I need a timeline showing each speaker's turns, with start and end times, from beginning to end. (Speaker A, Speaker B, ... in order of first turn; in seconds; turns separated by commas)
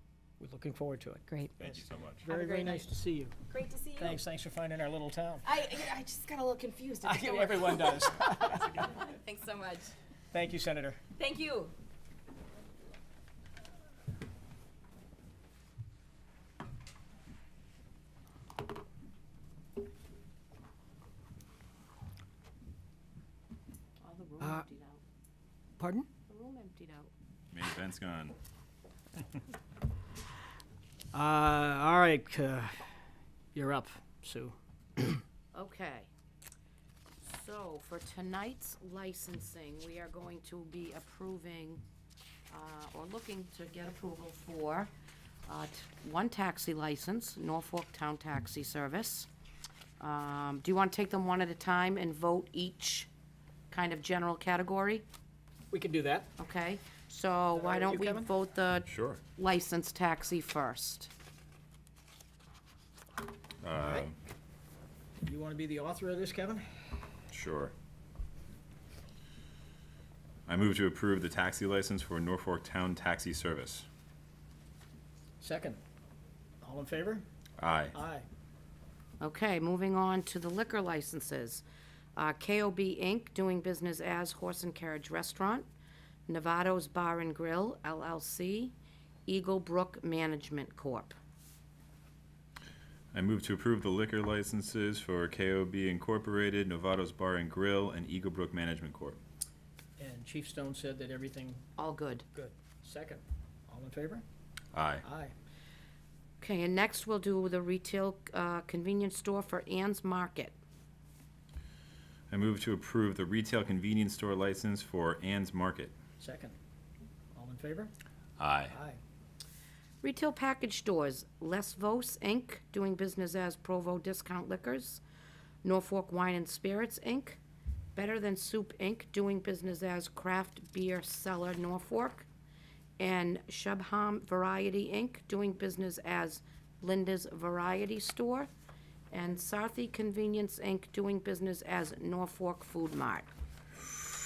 Speaker A: 0.4-3.3, Speaker B: 1.3-1.5, Speaker C: 1.6-2.2, Speaker B: 2.2-2.9, Speaker B: 3.5-4.2, Speaker A: 4.0-5.4, Speaker B: 5.4-9.9, Speaker A: 7.0-8.9, Speaker A: 10.3-11.0, Speaker B: 11.2-11.7, Speaker D: 24.0-25.0, Speaker A: 25.8-26.1, Speaker D: 26.3-27.1, Speaker C: 27.5-28.4, Speaker A: 31.1-32.9, Speaker A: 33.5-35.2, Speaker D: 35.5-36.1, Speaker D: 37.2-41.8, Speaker D: 42.5-44.9, Speaker D: 45.5-49.3, Speaker D: 50.0-53.1, Speaker D: 53.7-55.0, Speaker A: 55.7-56.3, Speaker D: 56.4-61.1, Speaker A: 57.5-58.3, Speaker C: 58.9-59.2, Speaker C: 63.6-64.2, Speaker A: 63.8-64.1, Speaker A: 65.2-66.8, Speaker C: 67.3-67.7, Speaker C: 70.5-73.8, Speaker A: 75.4-75.8, Speaker A: 76.6-77.2, Speaker C: 77.6-77.9, Speaker A: 77.9-78.2, Speaker D: 79.2-85.7, Speaker D: 86.3-88.8, Speaker D: 89.3-91.1, Speaker C: 93.1-99.2, Speaker A: 100.0-101.6, Speaker D: 101.8-102.2, Speaker A: 102.3-104.2, Speaker C: 104.7-105.0, Speaker A: 105.0-105.3, Speaker D: 106.4-110.5, Speaker C: 112.3-115.9, Speaker A: 116.2-116.5, Speaker A: 117.3-117.9, Speaker C: 118.4-118.7, Speaker A: 118.7-119.0, Speaker D: 120.0-125.0, Speaker D: 125.6-127.4, Speaker D: 127.9-132.3, Speaker D: 133.0-138.5, Speaker D: 139.1-143.3